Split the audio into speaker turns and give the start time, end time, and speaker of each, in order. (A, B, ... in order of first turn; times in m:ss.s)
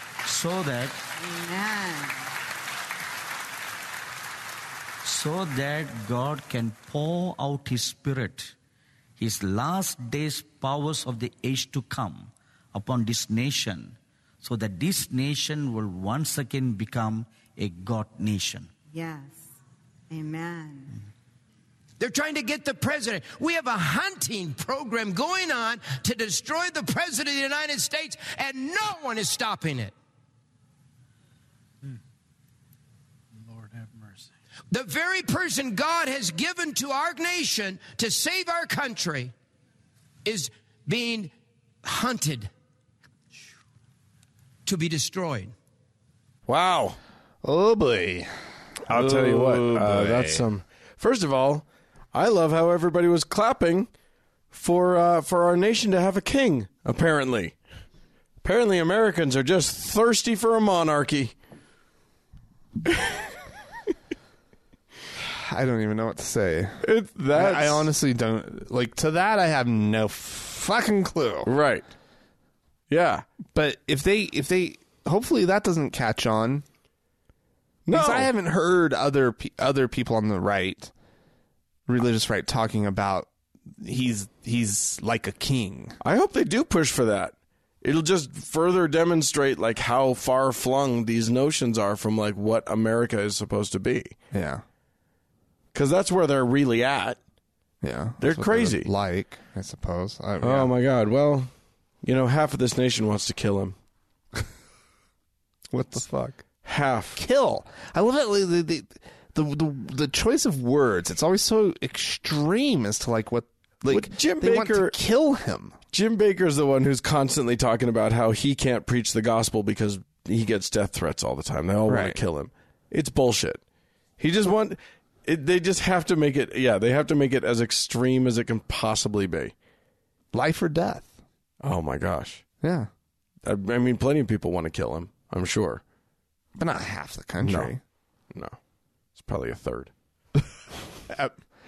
0:00.2-0:01.1 A
0:01.2-0:02.3 B
0:05.0-0:08.6 A
0:09.2-0:18.7 A
0:18.9-0:19.5 B
0:20.1-0:21.0 B
0:22.0-0:29.9 C
0:34.7-0:39.3 C
0:40.2-0:41.3 C
0:41.8-0:42.5 C
0:44.6-0:45.5 C
0:46.5-0:47.0 D
0:47.4-0:48.3 E
0:48.9-0:53.9 D
0:48.9-0:50.4 E
0:54.5-0:57.6 D
0:58.4-1:01.4 D
1:02.9-1:03.2 D
1:05.1-1:11.5 E
1:06.8-1:07.9 D
1:11.5-1:11.9 D
1:12.9-1:13.2 D
1:13.5-1:16.6 E
1:17.9-1:18.3 D
1:17.9-1:20.9 E
1:21.9-1:26.0 E
1:26.0-1:34.2 D
1:34.3-1:34.6 E
1:35.7-1:37.2 D
1:37.8-1:40.7 E
1:38.2-1:38.9 D
1:40.4-1:41.5 D
1:42.0-1:43.8 D
1:45.7-1:46.4 E
1:46.6-1:47.2 D
1:47.2-1:55.8 E
1:53.9-1:55.0 D
1:55.9-2:03.6 D
2:01.9-2:02.2 E
2:04.2-2:09.5 D
2:10.3-2:11.1 E
2:11.6-2:12.4 D
2:12.6-2:12.9 E
2:13.4-2:15.8 D
2:16.6-2:17.8 E
2:17.4-2:17.7 D
2:19.2-2:20.4 D
2:21.1-2:21.3 E